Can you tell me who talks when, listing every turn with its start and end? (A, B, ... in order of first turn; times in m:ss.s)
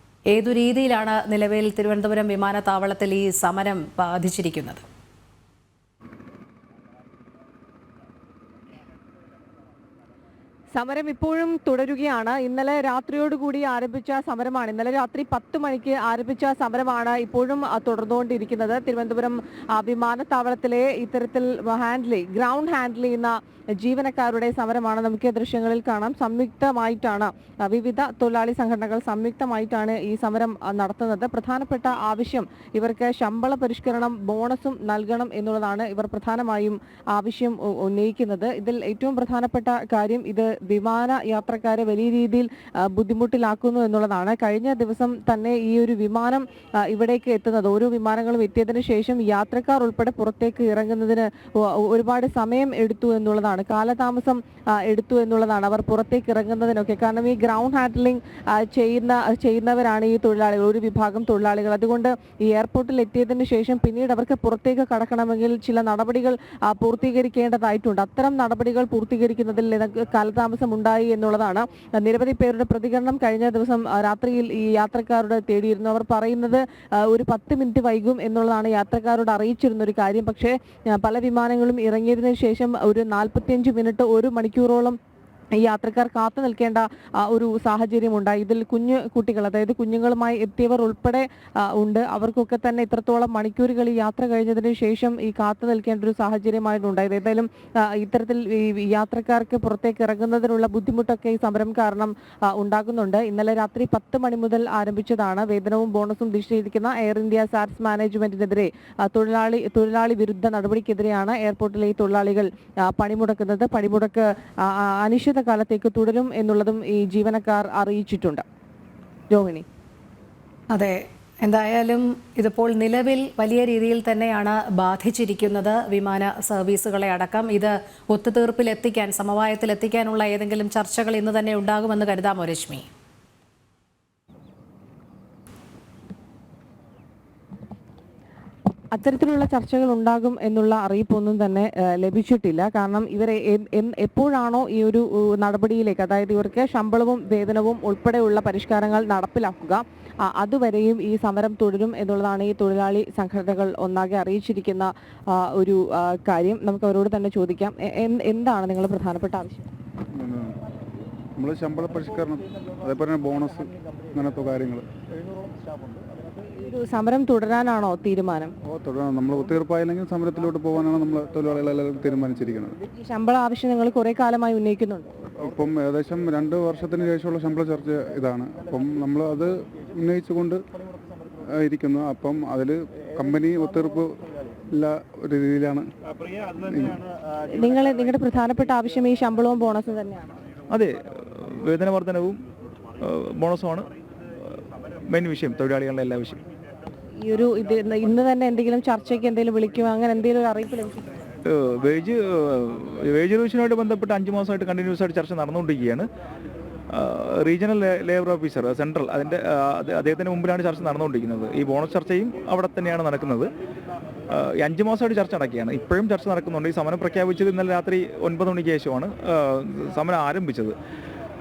0:00.3-0:04.8 A
0:10.7-1:25.0 B
1:25.6-1:58.4 B
1:59.3-1:59.6 B
2:00.7-2:12.9 A
2:18.9-2:39.7 B
2:40.2-2:40.6 C
2:41.4-2:44.9 C
2:46.6-2:48.5 B
2:48.6-2:52.8 C
2:53.0-2:55.1 B
2:55.4-3:00.6 C
3:01.5-3:04.2 C
3:04.8-3:05.9 C
3:06.6-3:07.0 C
3:07.6-3:10.4 B
3:10.7-3:12.4 D
3:13.0-3:13.9 D
3:15.1-3:16.4 D
3:17.2-3:21.3 B
3:21.5-3:26.1 D
3:26.9-3:33.5 D
3:34.3-3:40.8 D